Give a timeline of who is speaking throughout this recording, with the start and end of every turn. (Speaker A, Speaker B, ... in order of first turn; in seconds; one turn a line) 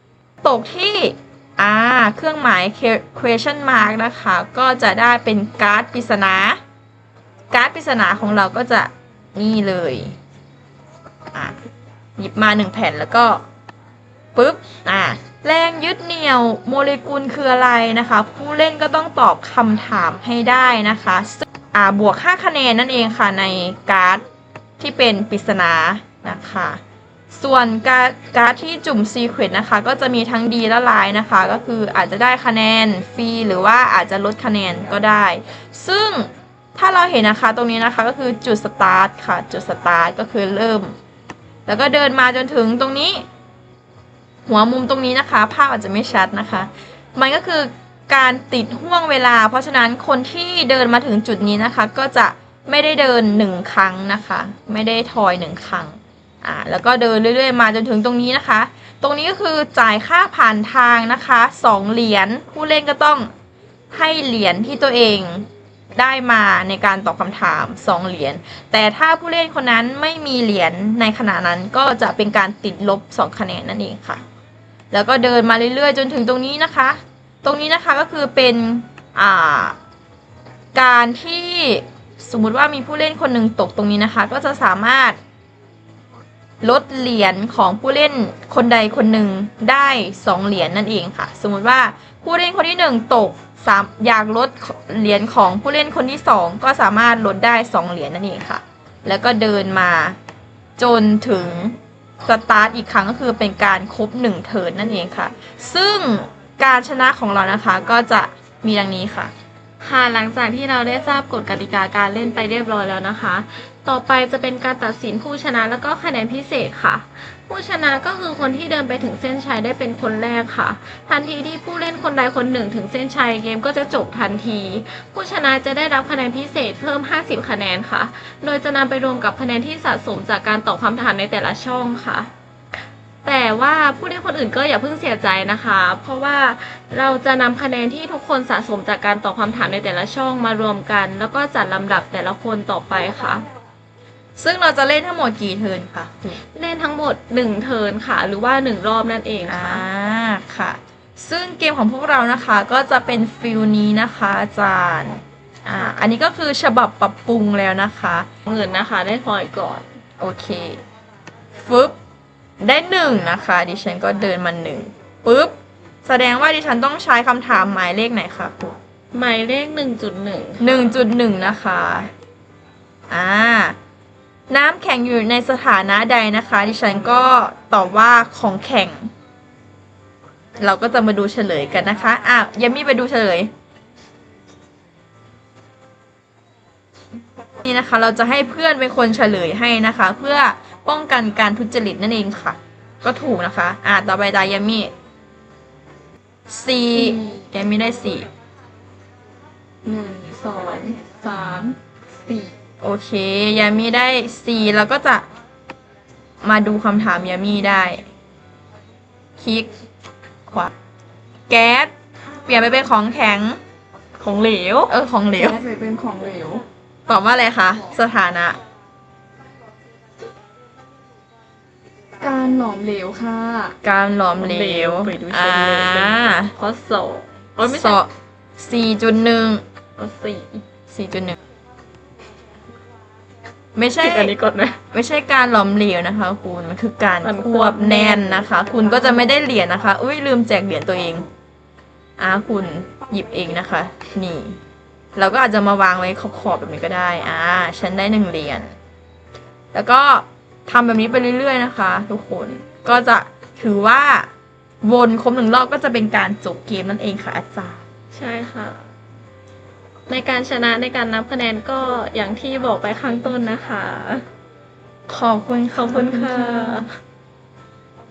Speaker A: 0.4-6.6
Speaker A: 7.5-10.2
Speaker A: 12.2-13.4
Speaker A: 14.3-24.2
Speaker A: 24.8-26.8
Speaker A: 27.3-40.9
Speaker A: 41.7-43.2
Speaker A: 44.5-63.3
Speaker A: 63.9-74.2
Speaker A: 74.9-79.8
Speaker A: 80.7-85.2
Speaker A: 86.6-100.2
Speaker A: 100.8-109.3
Speaker B: 109.8-132.3
Speaker B: 133.2-143.4
Speaker A: 144.4-146.4
Speaker B: 146.5-149.8
Speaker A: 149.5-158.3
Speaker B: 158.5-159.9
Speaker A: 160.2-160.8
Speaker A: 161.6-162.0
Speaker A: 162.6-168.8
Speaker B: 169.1-171.0
Speaker A: 170.6-172.1
Speaker A: 173.1-173.8
Speaker A: 174.5-179.1
Speaker A: 180.6-183.5
Speaker A: 187.6-194.9
Speaker A: 196.5-198.3
Speaker C: 199.8-201.8
Speaker A: 202.8-205.3
Speaker A: 206.4-208.1
Speaker A: 209.4-209.7
Speaker A: 210.5-210.7
Speaker A: 211.5-211.9
Speaker A: 212.4-213.6
Speaker B: 214.2-214.9
Speaker A: 214.9-215.6
Speaker C: 215.3-216.6
Speaker A: 217.1-218.6
Speaker C: 222.2-223.8
Speaker A: 223.8-226.5
Speaker B: 224.4-228.0
Speaker A: 227.6-229.6
Speaker B: 230.0-230.6
Speaker A: 230.9-231.4
Speaker A: 233.8-234.3
Speaker B: 234.0-234.8
Speaker A: 234.9-241.3
Speaker B: 237.2-238.5
Speaker A: 242.2-244.6
Speaker A: 245.2-248.7
Speaker A: 249.7-254.3
Speaker A: 254.8-257.8
Speaker B: 258.1-258.9
Speaker B: 260.1-264.2
Speaker A: 265.1-266.9
Speaker B: 265.7-266.9